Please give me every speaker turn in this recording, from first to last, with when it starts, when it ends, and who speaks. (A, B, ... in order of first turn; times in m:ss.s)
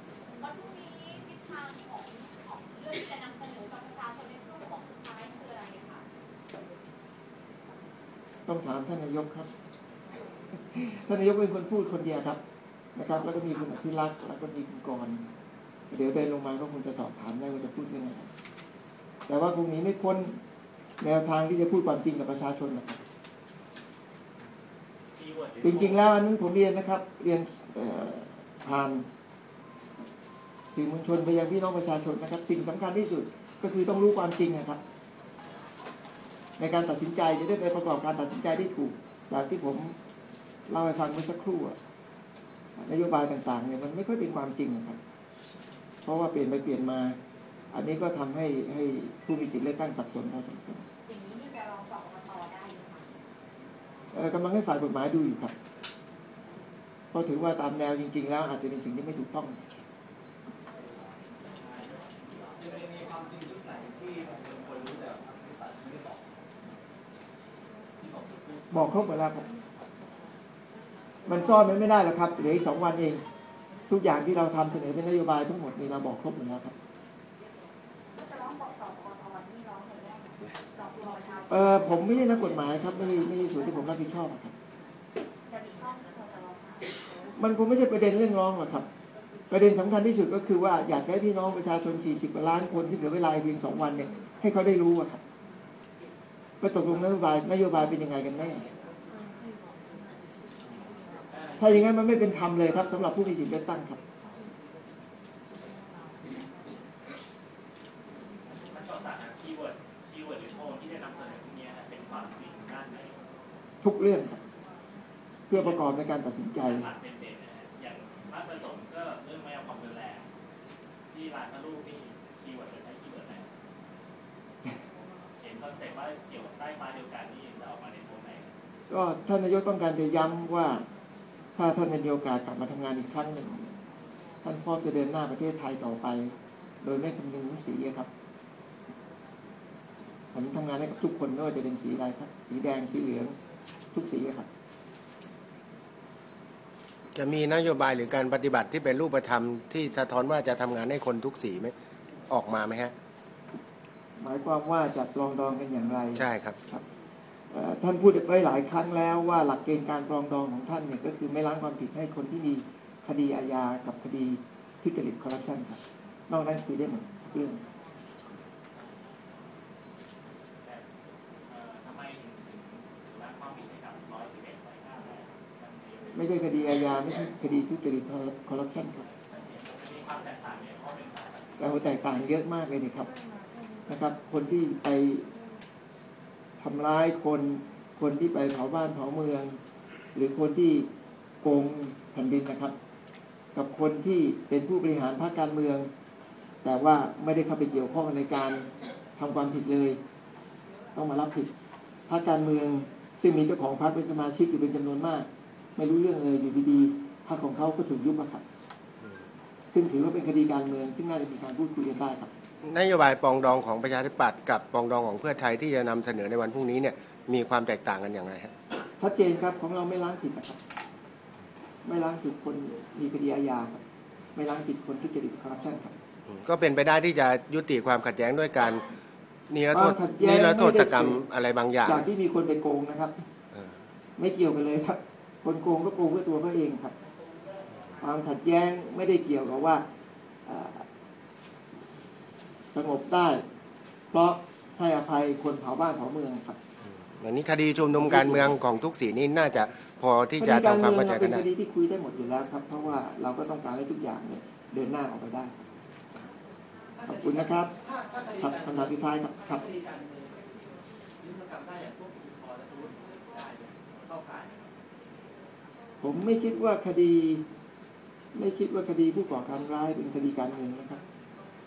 0:00.3-0:06.1 A
0:08.5-0:09.5 B
0:10.5-0:12.4 B
0:13.0-0:15.2 B
0:15.9-0:18.3 B
0:19.3-0:20.4 B
0:21.0-0:23.0 B
0:25.1-0:26.1 C
0:25.6-0:29.1 B
0:30.7-0:34.8 B
0:36.6-0:40.0 B
0:40.7-0:41.8 B
0:42.8-0:45.0 B
0:46.0-0:47.2 B
0:47.7-0:50.8 B
0:51.1-0:53.1 A
0:54.1-0:55.5 B
0:57.1-0:59.6 B
1:02.6-1:06.2 D
1:08.0-1:08.6 D
1:08.7-1:09.4 B
1:11.3-1:13.2 B
1:13.9-1:16.7 B
1:18.2-1:22.2 A
1:21.5-1:24.5 B
1:25.5-1:27.3 A
1:27.4-1:28.9 B
1:29.5-1:35.2 B
1:36.6-1:38.7 B
1:41.3-1:41.8 C
1:41.6-1:44.0 B
1:48.5-1:53.2 C
1:53.8-1:54.4 B
1:55.5-1:56.9 B
1:55.5-1:55.8 C
1:56.6-2:00.3 C
2:01.1-2:03.5 C
2:05.4-2:08.5 C
2:08.9-2:10.9 B
2:11.6-2:13.8 B
2:14.4-2:18.1 B
2:20.3-2:23.4 B
2:23.9-2:24.5 B
2:27.1-2:31.7 E
2:32.3-2:32.9 E
2:34.2-2:36.8 B
2:36.2-2:36.6 E
2:37.5-2:47.6 B
2:48.7-2:49.4 C
2:50.6-2:50.9 C
2:51.5-2:56.4 C
2:56.1-2:59.1 B
2:59.0-3:02.1 C
3:01.6-3:03.1 B
3:03.9-3:05.3 B
3:06.6-3:09.6 B
3:10.2-3:10.9 B
3:11.4-3:12.8 B
3:13.6-3:15.9 B
3:16.6-3:20.0 B
3:21.0-3:21.5 B
3:22.1-3:28.4 B
3:29.7-3:32.3 B
3:32.6-3:38.5 E
3:39.0-3:40.6 B
3:41.8-3:43.8 B
3:44.3-3:46.0 B
3:46.3-3:49.0 E
3:49.5-3:52.1 E
3:49.7-3:51.2 B
3:51.8-3:53.2 B
3:54.2-3:57.0 B
3:58.0-3:59.8 B
4:00.5-4:00.9 B
4:02.7-4:03.4 B
4:04.1-4:06.6 B
4:07.1-4:11.5 E
4:07.9-4:08.6 B
4:10.4-4:15.6 B
4:17.0-4:19.0 D
4:17.1-4:17.7 B
4:18.4-4:19.7 B
4:19.6-4:20.4 D
4:21.2-4:24.6 D
4:26.0-4:27.4 B
4:28.4-4:31.0 B